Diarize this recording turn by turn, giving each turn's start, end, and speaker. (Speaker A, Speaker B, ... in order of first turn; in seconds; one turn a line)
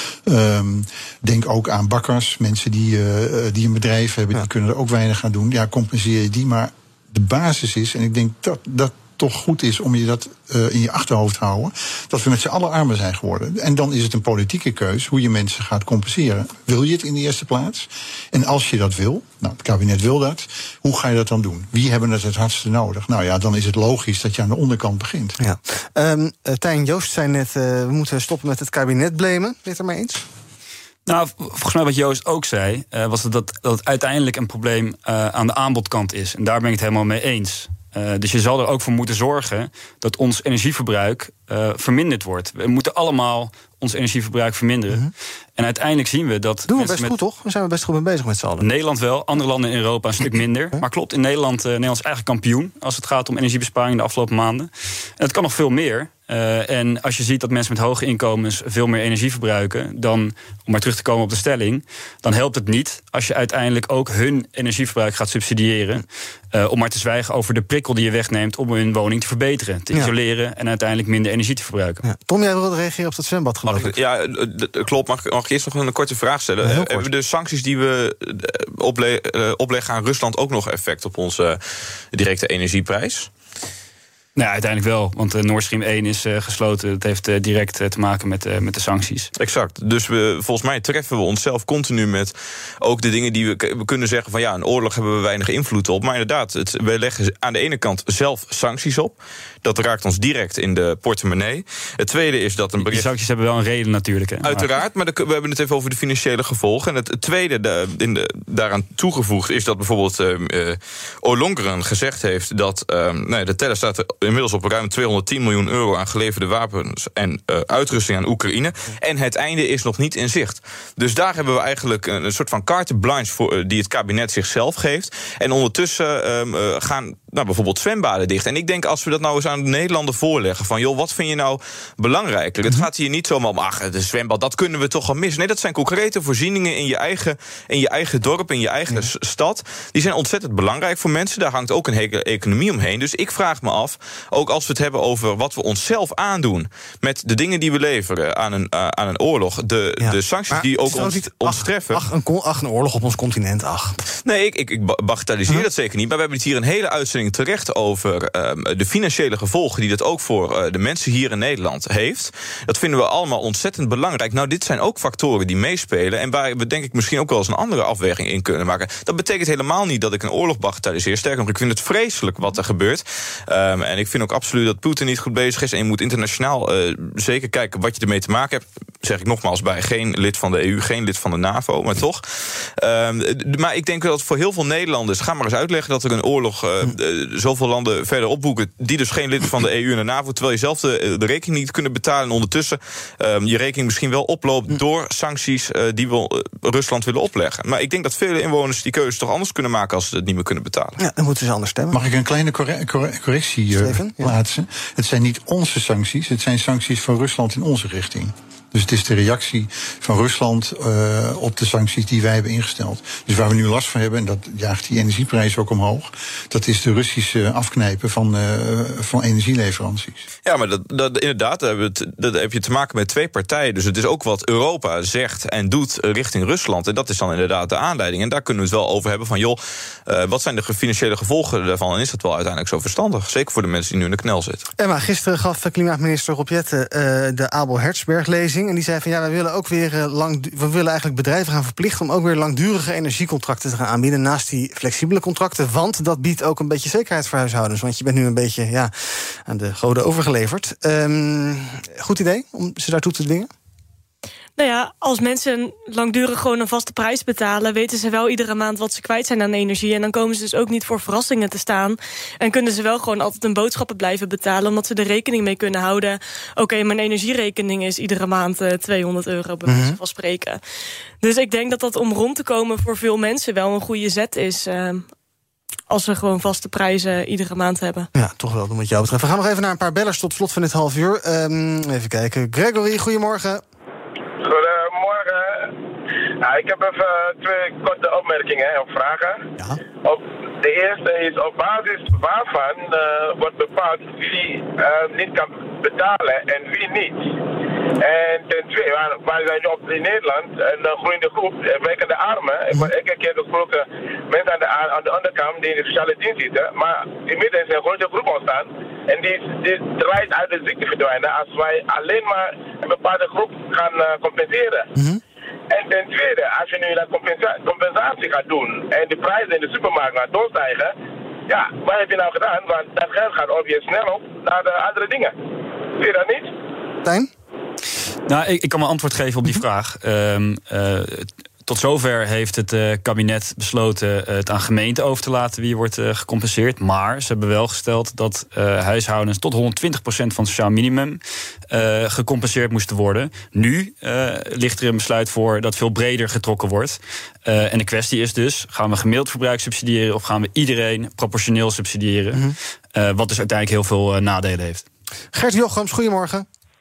Speaker A: 0.2-25.4
Speaker B: 25.4-30.2
Speaker C: 31.1-47.1
Speaker B: 46.7-48.7
Speaker C: 48.6-72.0
Speaker B: 72.0-73.9
Speaker D: 73.7-83.3
Speaker B: 76.6-77.1
Speaker C: 84.3-89.3
Speaker D: 89.3-103.1
Speaker C: 102.8-104.7
Speaker D: 104.4-152.0
Speaker B: 150.0-154.0
Speaker D: 154.2-201.0
Speaker B: 201.0-202.0
Speaker A: 201.9-220.2
Speaker B: 203.8-204.3
Speaker D: 220.4-234.7
Speaker B: 234.8-253.5
Speaker E: 254.6-270.6
Speaker B: 269.6-270.0
Speaker E: 271.2-275.1
Speaker E: 275.9-278.1
Speaker B: 278.1-283.6
Speaker F: 284.4-285.7
Speaker F: 286.4-289.4
Speaker F: 290.0-297.3
Speaker F: 298.0-314.9
Speaker F: 315.7-320.9
Speaker F: 321.5-325.3
Speaker F: 325.9-326.5
Speaker B: 327.0-327.3
Speaker C: 328.3-354.8
Speaker B: 355.3-356.5